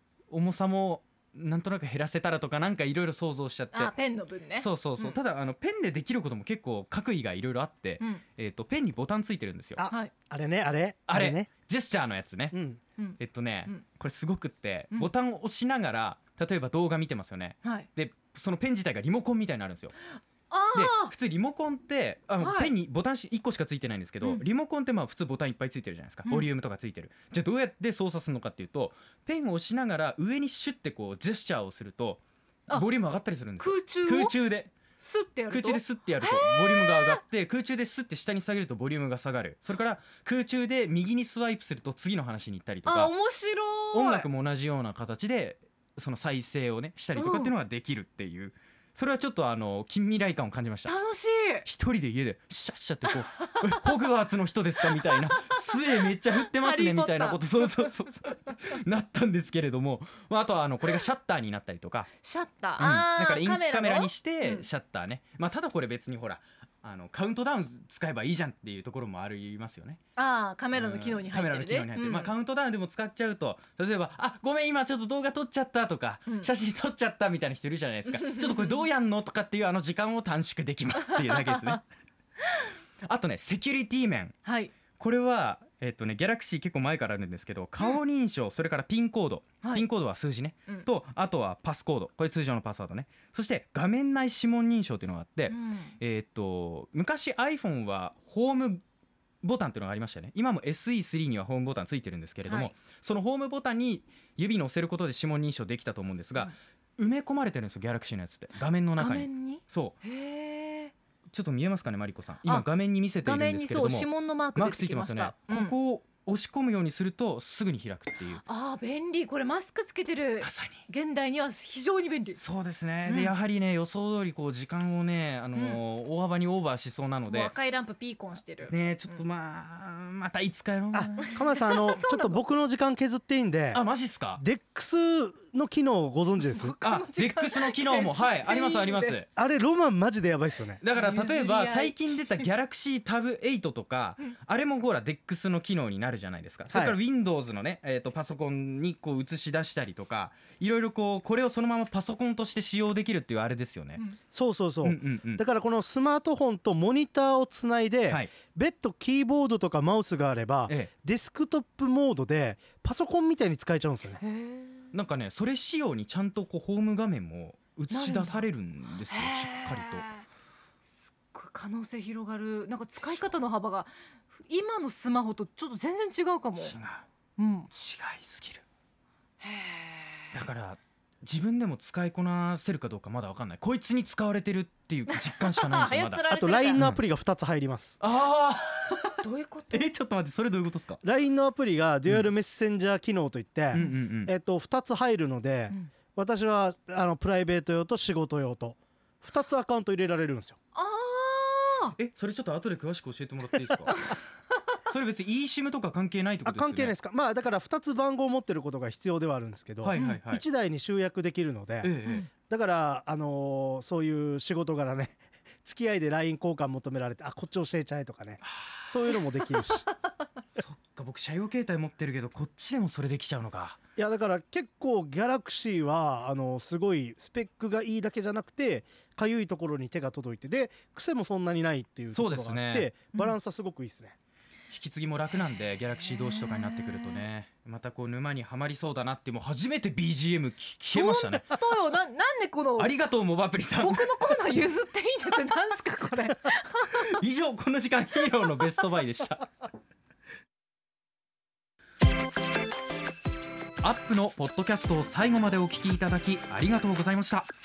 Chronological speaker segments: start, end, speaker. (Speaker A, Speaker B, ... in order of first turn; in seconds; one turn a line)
Speaker A: 0.3-3.9
Speaker B: 3.7-5.2
Speaker A: 4.6-9.8
Speaker C: 9.8-11.5
Speaker A: 11.1-12.6
Speaker C: 12.5-12.8
Speaker B: 13.0-13.8
Speaker A: 13.2-19.9
Speaker B: 17.6-17.9
Speaker B: 20.5-21.1
Speaker A: 20.7-34.7
Speaker B: 22.4-22.7
Speaker B: 33.6-34.3
Speaker B: 35.0-37.2
Speaker A: 35.5-43.1
Speaker B: 42.8-44.3
Speaker A: 43.9-51.0
Speaker B: 47.1-47.5
Speaker B: 50.8-51.6
Speaker A: 51.6-62.1
Speaker B: 53.4-53.9
Speaker B: 54.9-57.9
Speaker B: 62.2-64.7
Speaker A: 62.8-70.0
Speaker B: 70.2-72.3
Speaker A: 70.7-81.8
Speaker B: 78.1-78.8
Speaker B: 80.9-81.8
Speaker A: 83.0-84.4
Speaker B: 84.4-84.7
Speaker A: 85.0-98.8
Speaker B: 95.5-96.0
Speaker A: 99.4-110.0
Speaker B: 102.4-102.8
Speaker B: 109.0-110.9
Speaker A: 111.3-118.4
Speaker B: 113.2-115.7
Speaker B: 118.4-122.4
Speaker A: 120.4-120.8
Speaker A: 122.4-127.5
Speaker B: 123.0-123.3
Speaker B: 125.5-125.8
Speaker B: 127.3-129.2
Speaker A: 128.6-131.1
Speaker C: 130.9-133.8
Speaker B: 131.2-132.4
Speaker A: 133.7-134.4
Speaker C: 134.4-136.8
Speaker B: 136.4-139.2
Speaker A: 136.8-139.3
Speaker C: 139.3-140.8
Speaker A: 140.8-154.0
Speaker B: 140.9-142.4
Speaker C: 146.7-147.0
Speaker C: 154.3-164.2
Speaker A: 154.8-155.4
Speaker A: 158.1-158.3
Speaker A: 160.7-160.9
Speaker B: 164.2-164.9
Speaker A: 164.9-170.1
Speaker B: 167.9-168.5
Speaker B: 169.1-170.2
Speaker B: 170.8-176.7
Speaker A: 176.6-177.1
Speaker B: 177.4-177.7
Speaker A: 177.7-178.6
Speaker B: 179.4-180.3
Speaker A: 180.3-187.0
Speaker B: 185.1-186.8
Speaker C: 186.3-188.0
Speaker A: 188.0-189.2
Speaker B: 189.2-189.9
Speaker A: 189.7-191.0
Speaker C: 191.0-200.6
Speaker A: 193.7-194.3
Speaker B: 200.7-201.9
Speaker A: 202.0-204.0
Speaker A: 204.8-206.9
Speaker C: 206.4-211.9
Speaker A: 209.8-210.4
Speaker B: 209.9-210.2
Speaker A: 211.8-212.3
Speaker C: 212.5-219.9
Speaker A: 218.4-219.7
Speaker A: 220.6-223.8
Speaker C: 224.0-234.2
Speaker A: 232.1-232.9
Speaker A: 234.7-241.6
Speaker B: 236.1-237.2
Speaker B: 240.9-242.9
Speaker A: 242.8-244.5
Speaker B: 243.8-247.1
Speaker A: 247.1-249.5
Speaker A: 253.8-257.5